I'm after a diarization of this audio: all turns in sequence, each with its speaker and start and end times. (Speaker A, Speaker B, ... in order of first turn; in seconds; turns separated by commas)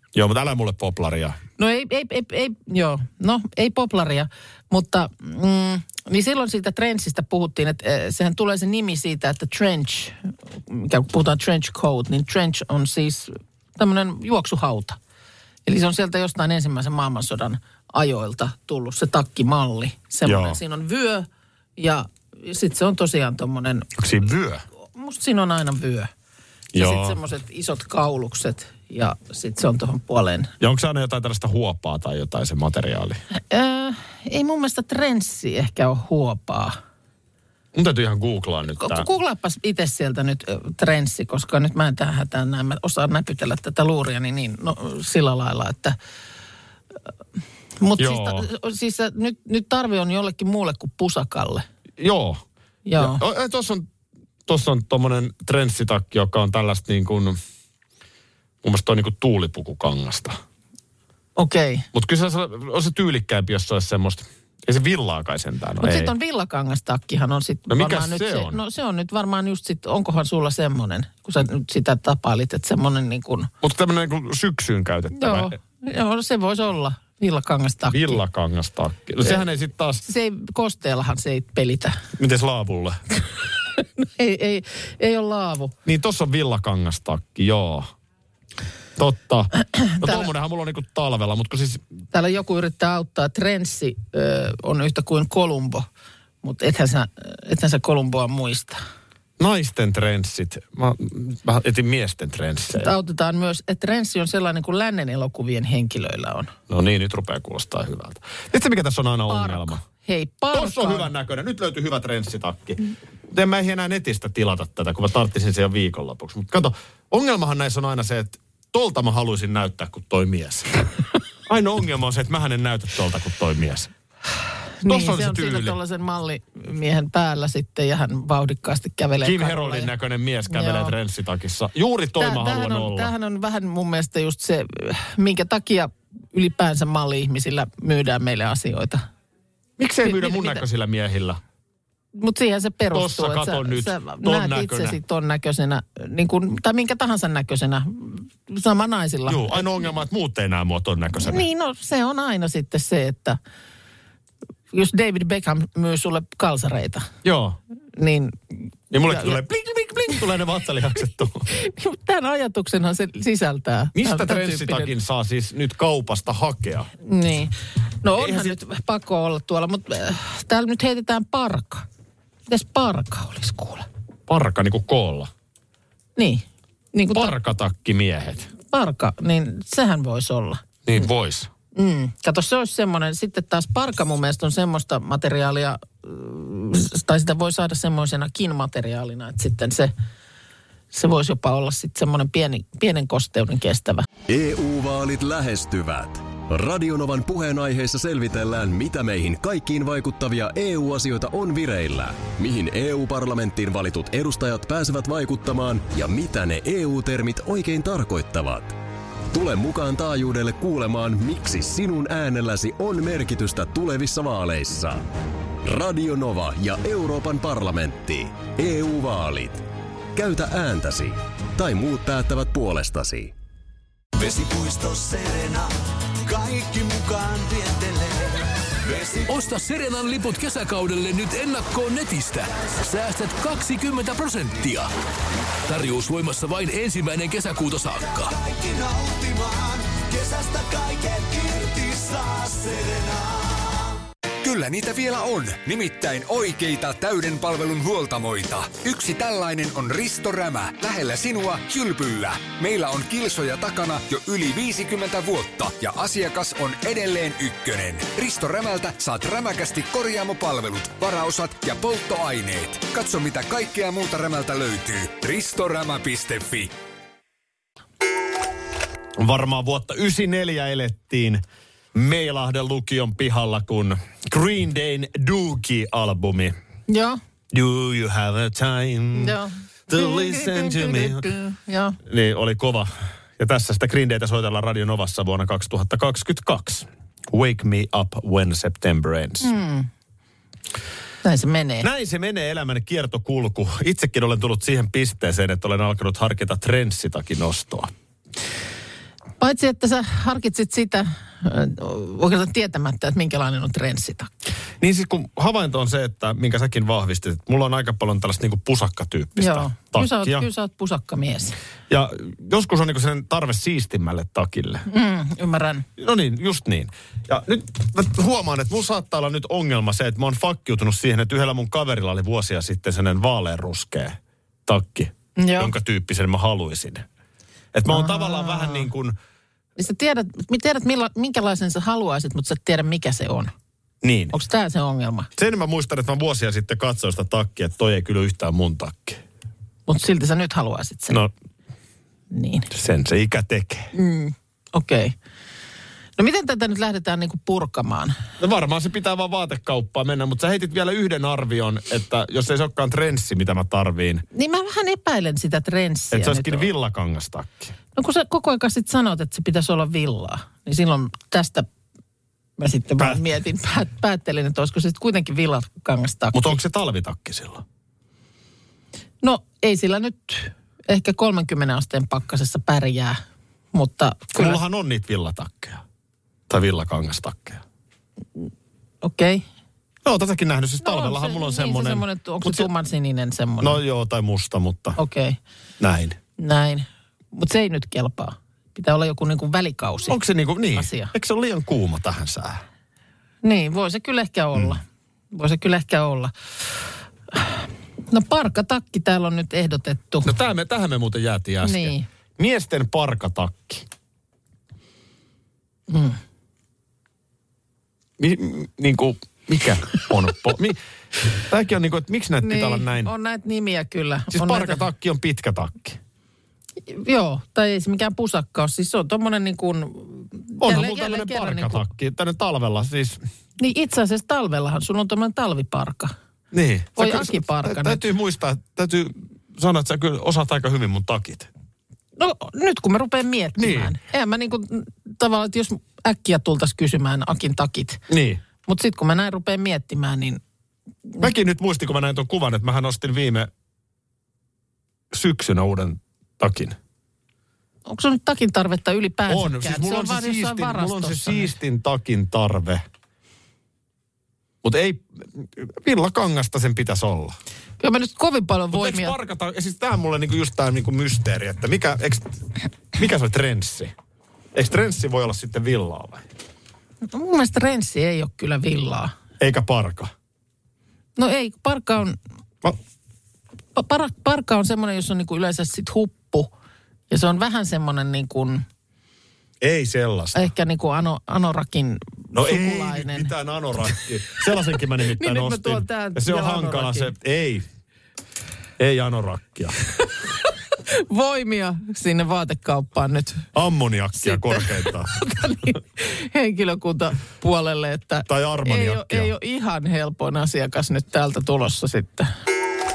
Speaker A: 0.1-1.4, Speaker B: 1.6-15.0, Speaker B: 15.7-23.9, Speaker A: 20.2-20.6, Speaker A: 24.0-24.6, Speaker B: 24.9-26.1, Speaker A: 26.7-27.2, Speaker B: 26.8-30.5, Speaker A: 30.6-33.2, Speaker B: 33.5-36.8, Speaker A: 37.7-39.1, Speaker B: 38.8-46.0, Speaker B: 47.8-51.6, Speaker A: 48.0-48.5, Speaker A: 52.0-52.4, Speaker B: 52.9-53.2, Speaker A: 53.0-53.9, Speaker A: 54.5-57.4, Speaker A: 58.6-60.4, Speaker B: 61.4-61.9, Speaker A: 61.9-66.1, Speaker B: 65.8-73.5, Speaker A: 67.7-68.6, Speaker A: 73.6-75.6, Speaker B: 75.1-78.2, Speaker A: 77.9-80.0, Speaker B: 80.0-82.0, Speaker A: 82.2-83.0, Speaker B: 83.8-85.8, Speaker A: 85.8-87.9, Speaker A: 89.0-91.8, Speaker B: 90.0-90.3, Speaker B: 92.1-95.9, Speaker B: 96.4-98.8, Speaker A: 99.4-102.9, Speaker B: 102.8-106.5, Speaker A: 106.7-109.8, Speaker B: 109.3-111.1, Speaker A: 110.5-112.8, Speaker A: 113.3-120.7, Speaker A: 121.5-123.9, Speaker B: 124.8-129.9, Speaker A: 124.8-125.8, Speaker A: 129.2-133.1, Speaker B: 130.5-130.9, Speaker B: 132.2-139.1, Speaker A: 139.8-141.4, Speaker B: 140.0-140.6, Speaker B: 142.2-149.6, Speaker A: 142.9-145.0, Speaker A: 149.3-151.4, Speaker B: 151.2-153.4, Speaker B: 154.7-157.1, Speaker A: 157.2-157.6, Speaker B: 158.0-159.4, Speaker A: 158.9-161.5, Speaker B: 161.5-164.9, Speaker A: 163.9-166.9, Speaker B: 167.1-171.9, Speaker A: 168.1-168.6, Speaker B: 172.5-173.9, Speaker A: 174.3-175.3, Speaker B: 176.2-177.3, Speaker A: 177.1-178.5, Speaker B: 178.7-180.6, Speaker A: 180.9-181.5, Speaker B: 181.8-189.9, Speaker B: 190.9-194.1, Speaker C: 194.3-208.8, Speaker C: 209.3-215.1, Speaker C: 215.6-223.3, Speaker D: 224.2-229.3, Speaker E: 229.3-234.9, Speaker E: 235.7-238.3, Speaker D: 238.0-243.8, Speaker F: 244.4-266.7, Speaker A: 269.2-271.4, Speaker A: 271.9-276.6, Speaker B: 276.9-277.2, Speaker A: 277.5-281.3, Speaker B: 279.1-282.0, Speaker A: 282.1-289.5, Speaker B: 289.4-289.9, Speaker B: 291.2-291.9, Speaker A: 291.8-297.9, Speaker B: 299.4-304.3, Speaker A: 304.8-310.5, Speaker B: 309.4-311.6, Speaker A: 311.9-314.9, Speaker B: 314.9-315.9, Speaker A: 316.0-327.1, Speaker B: 325.4-325.7, Speaker A: 327.7-329.2, Speaker B: 327.9-328.9, Speaker B: 329.8-333.5, Speaker A: 334.0-334.3, Speaker B: 334.3-335.3, Speaker A: 335.4-339.2, Speaker B: 339.9-341.2, Speaker B: 342.3-342.7, Speaker A: 342.7-343.9, Speaker B: 343.9-345.1, Speaker B: 346.2-348.2, Speaker A: 348.4-354.2, Speaker B: 354.3-356.7, Speaker A: 356.1-357.7, Speaker B: 358.0-361.7, Speaker B: 362.6-366.6, Speaker A: 363.0-363.2, Speaker A: 366.3-367.6, Speaker B: 369.2-373.2, Speaker B: 373.7-374.6, Speaker A: 374.4-375.8, Speaker A: 376.5-377.6, Speaker B: 379.0-379.4, Speaker A: 380.0-382.7, Speaker B: 380.8-383.8, Speaker A: 383.6-385.0, Speaker B: 385.0-385.4, Speaker A: 385.8-386.2, Speaker B: 386.4-390.2, Speaker A: 390.1-392.6, Speaker B: 390.8-391.1, Speaker B: 393.4-396.3, Speaker B: 397.3-400.3, Speaker A: 400.2-403.9, Speaker B: 401.6-402.1, Speaker B: 405.9-406.2, Speaker A: 408.2-410.8, Speaker A: 411.4-413.1, Speaker B: 412.4-414.9, Speaker A: 414.3-416.0, Speaker B: 416.9-421.9, Speaker A: 420.6-423.2, Speaker B: 423.6-426.1, Speaker A: 426.5-431.5, Speaker B: 427.0-428.0, Speaker B: 432.2-438.0, Speaker A: 433.6-433.9, Speaker A: 438.1-438.4, Speaker B: 438.7-440.4, Speaker A: 441.2-443.5, Speaker A: 445.1-446.8, Speaker B: 447.9-451.6, Speaker A: 449.3-452.8, Speaker A: 454.6-457.4, Speaker B: 457.8-459.2, Speaker A: 458.7-463.9, Speaker A: 464.5-466.3, Speaker B: 467.1-469.1, Speaker A: 469.4-470.1, Speaker B: 471.2-472.2, Speaker B: 473.8-476.5, Speaker B: 477.1-478.6, Speaker A: 479.6-480.5, Speaker B: 480.4-483.3, Speaker A: 482.3-487.6, Speaker B: 485.1-487.1, Speaker A: 488.8-489.8, Speaker B: 490.4-493.5, Speaker A: 493.5-495.1, Speaker B: 494.2-502.3, Speaker A: 498.3-499.3